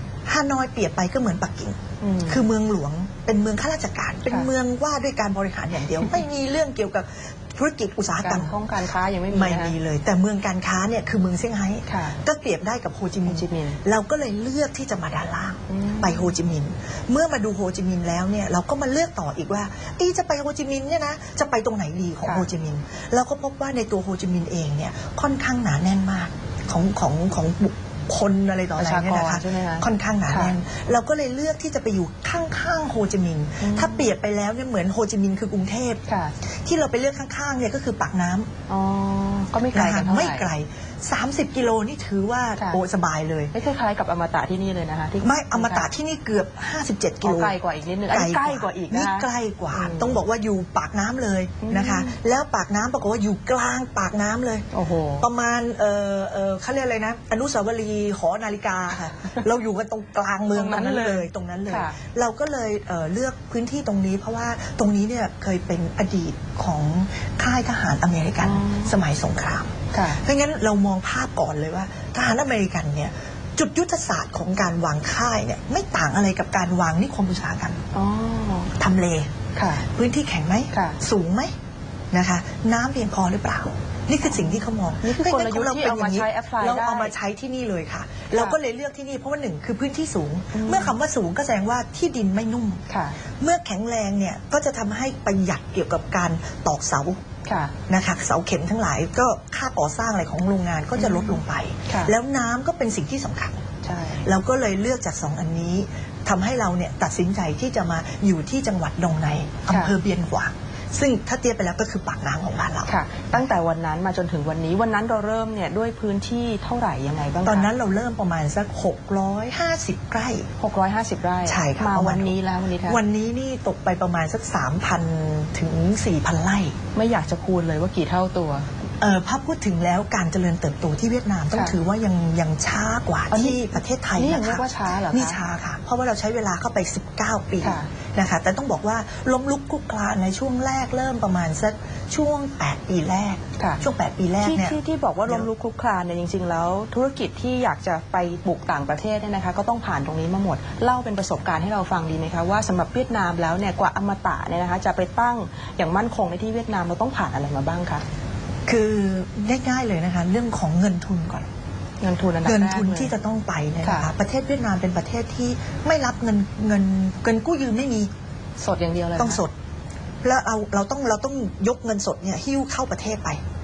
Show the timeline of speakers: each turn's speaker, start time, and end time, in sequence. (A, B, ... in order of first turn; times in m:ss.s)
0:00.2-0:08.6 A
0:02.0-0:02.4 B
0:08.2-0:09.7 B
0:09.3-0:36.0 A
0:11.9-0:12.2 B
0:13.2-0:13.8 B
0:15.7-0:16.3 B
0:28.8-0:30.5 B
0:33.6-0:34.1 B
0:36.0-0:36.3 B
0:36.6-0:38.5 A
0:38.7-0:40.5 B
0:39.7-0:43.5 A
0:43.5-0:45.9 B
0:45.2-0:47.6 A
0:47.2-0:50.2 B
0:48.1-1:17.8 A
0:51.6-0:52.1 B
0:54.7-0:55.3 B
1:00.5-1:02.0 B
1:08.4-1:08.9 B
1:09.9-1:10.2 B
1:17.9-1:18.7 B
1:18.8-1:21.5 A
1:19.5-1:19.8 B
1:20.7-1:21.0 B
1:22.1-1:32.8 A
1:24.2-1:27.1 B
1:28.3-1:28.6 B
1:30.5-1:30.9 B
1:32.9-1:33.2 B
1:33.4-1:37.2 A
1:37.4-1:37.7 B
1:37.9-1:43.6 A
1:41.0-1:42.1 B
1:43.8-1:44.2 B
1:44.2-1:53.4 A
1:52.9-1:57.7 B
1:57.4-2:00.5 A
2:00.6-2:03.0 B
2:01.4-2:06.7 A
2:06.9-2:08.7 B
2:09.0-2:25.5 A
2:13.3-2:15.4 B
2:17.6-2:17.9 B
2:23.6-2:23.8 B
2:24.4-2:38.0 B
2:38.6-2:41.5 A
2:42.0-2:43.1 B
2:42.4-2:48.1 A
2:43.8-2:44.1 B
2:48.6-2:49.4 B
2:49.2-2:49.5 A
2:50.2-2:53.4 A